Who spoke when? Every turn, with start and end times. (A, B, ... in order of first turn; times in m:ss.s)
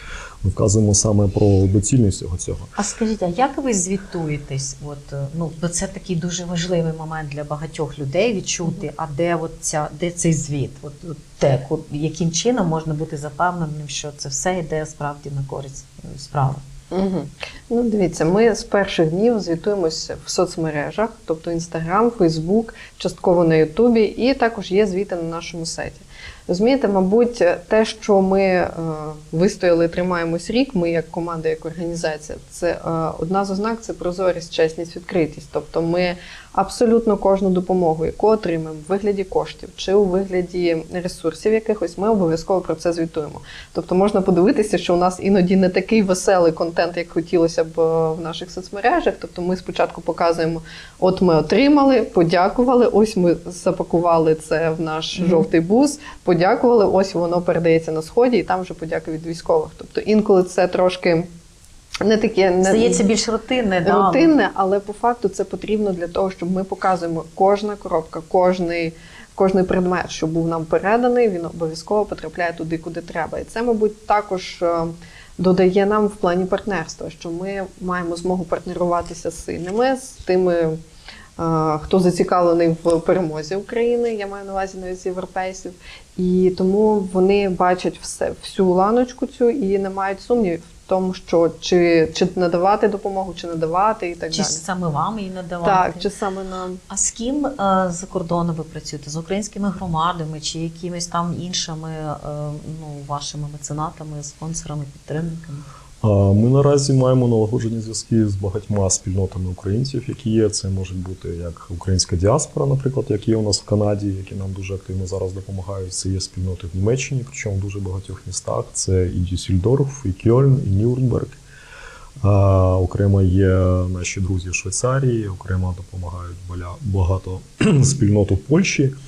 0:00.4-0:02.7 A
0:02.8-0:16.6 B
0:16.9-1:01.3 C
0:55.2-0:55.4 B
1:02.0-1:03.0 C
1:02.6-1:04.3 B
1:03.8-1:20.8 C
1:21.4-1:34.6 C
1:34.3-1:36.1 B
1:35.6-1:36.8 C
1:36.9-1:45.6 B
1:46.0-2:01.4 A
2:02.2-2:08.9 A